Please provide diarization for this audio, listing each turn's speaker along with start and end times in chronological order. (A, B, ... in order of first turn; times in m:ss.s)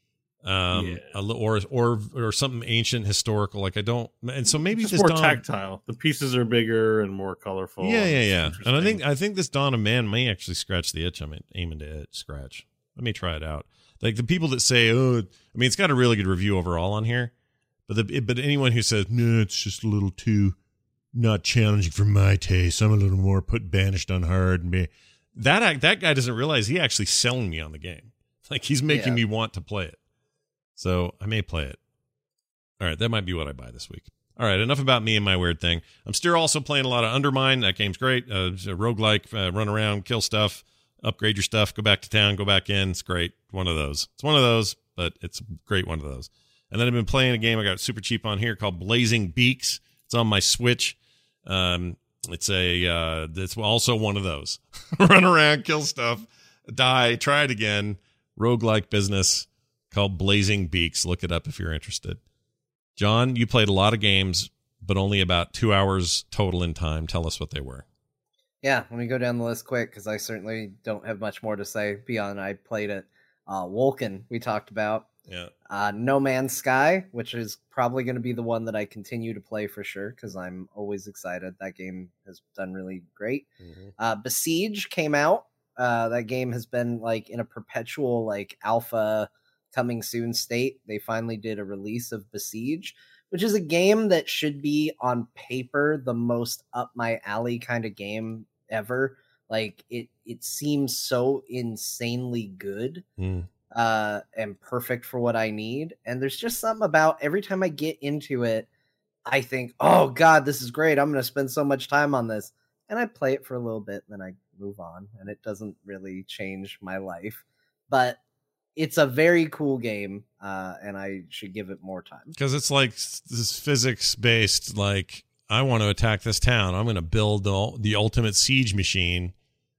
0:00.4-0:05.4 A
0:00.7-0:01.2 B
0:04.8-0:09.0 B
0:07.8-0:17.3 A
0:17.9-0:20.6 A
0:21.1-0:30.0 A
0:28.9-0:29.2 C
0:30.8-0:31.8 A
0:32.8-1:02.2 A
1:03.0-1:07.8 A
1:08.6-1:15.0 C
1:15.3-1:15.5 A
1:15.7-1:23.4 C
1:23.6-1:23.9 A
1:24.0-1:43.0 C
1:43.2-1:43.5 A
1:43.7-1:48.7 C
1:49.2-1:58.2 C
1:58.8-2:02.3 C
2:02.3-2:09.3 A